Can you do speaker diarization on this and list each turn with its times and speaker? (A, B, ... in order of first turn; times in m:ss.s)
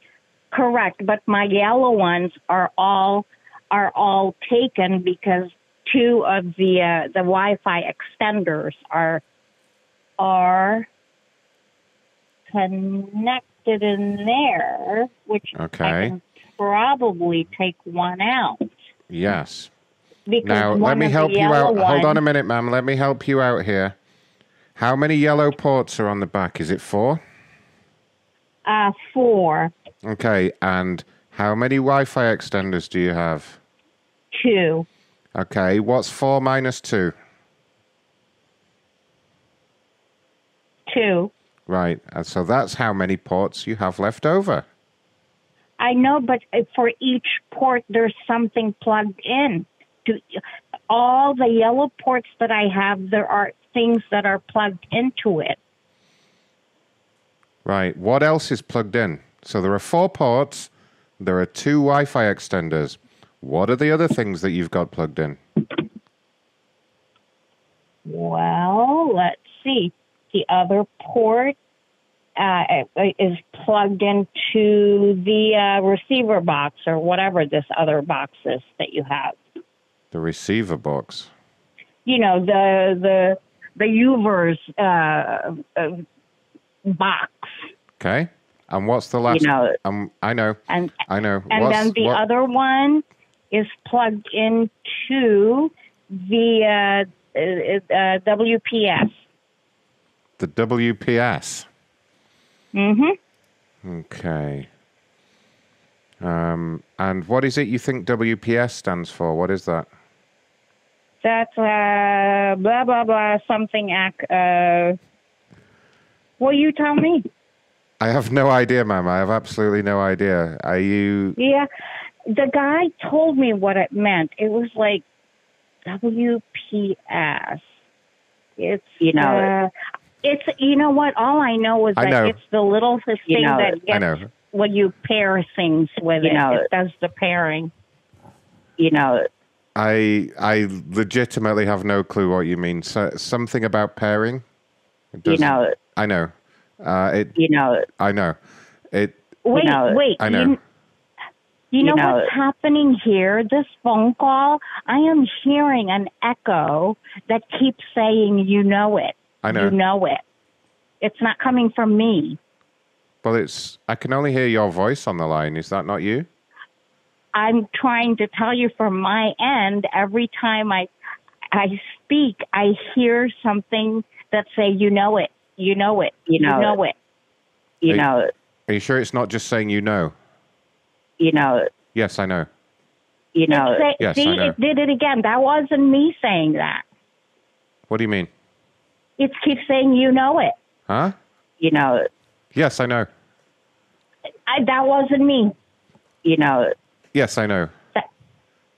0:00.5-0:09.2 A
0:10.2-0:10.9 A
0:12.5-0:18.7 A
0:15.5-0:16.1 B
0:19.1-0:19.7 B
0:20.3-0:22.2 A
0:20.4-0:23.9 B
0:24.8-0:27.2 B
0:28.6-0:29.7 A
0:30.0-0:33.6 B
0:34.3-0:34.8 A
0:35.3-0:37.1 B
0:40.9-0:41.3 A
0:41.7-0:44.6 B
0:45.8-0:55.6 A
0:57.6-1:05.4 B
1:08.0-1:11.6 A
1:12.4-1:19.4 A
1:20.1-1:21.3 B
1:22.0-1:26.0 A
1:26.8-1:27.7 A
1:28.0-1:32.2 B
1:29.3-1:29.7 C
1:30.7-1:31.0 A
1:31.5-1:39.2 A
1:40.4-1:41.7 B
1:42.7-1:43.1 A
1:43.8-1:44.7 B
1:46.2-1:49.9 B
1:51.2-1:55.0 A
1:56.4-1:57.2 A
1:58.0-2:01.4 B
2:01.4-2:01.7 A
2:02.3-2:05.0 A
2:05.8-2:07.8 A
2:08.6-2:09.7 A
2:09.0-2:09.5 C
2:10.2-2:17.7 A
2:12.0-2:12.3 B
2:13.3-2:13.8 C
2:13.9-2:14.3 B
2:16.2-2:16.6 C
2:18.8-2:19.2 C
2:19.8-2:24.4 B
2:25.1-2:27.4 B
2:25.2-2:25.7 C
2:27.4-2:27.8 C
2:28.0-2:28.4 B
2:28.9-2:29.2 B
2:29.4-2:30.6 A
2:29.5-2:30.0 C
2:30.2-2:30.6 B
2:31.7-2:40.2 A
2:31.8-2:32.3 C
2:39.4-2:39.7 B
2:41.0-2:42.4 A
2:43.2-2:46.3 B
2:47.3-2:50.9 A
2:51.5-2:57.0 A
2:56.3-2:56.8 C
2:57.8-2:58.3 C
2:58.7-3:00.1 B
3:01.2-3:01.7 C
3:01.9-3:02.5 B
3:03.3-3:03.8 C
3:03.5-3:06.8 A
3:04.0-3:04.6 B
3:07.9-3:08.3 B
3:09.2-3:10.5 A
3:10.9-3:11.2 B
3:11.6-3:12.0 C
3:12.5-3:13.1 B
3:14.5-3:15.5 A
3:16.2-3:16.7 C
3:17.1-3:17.7 B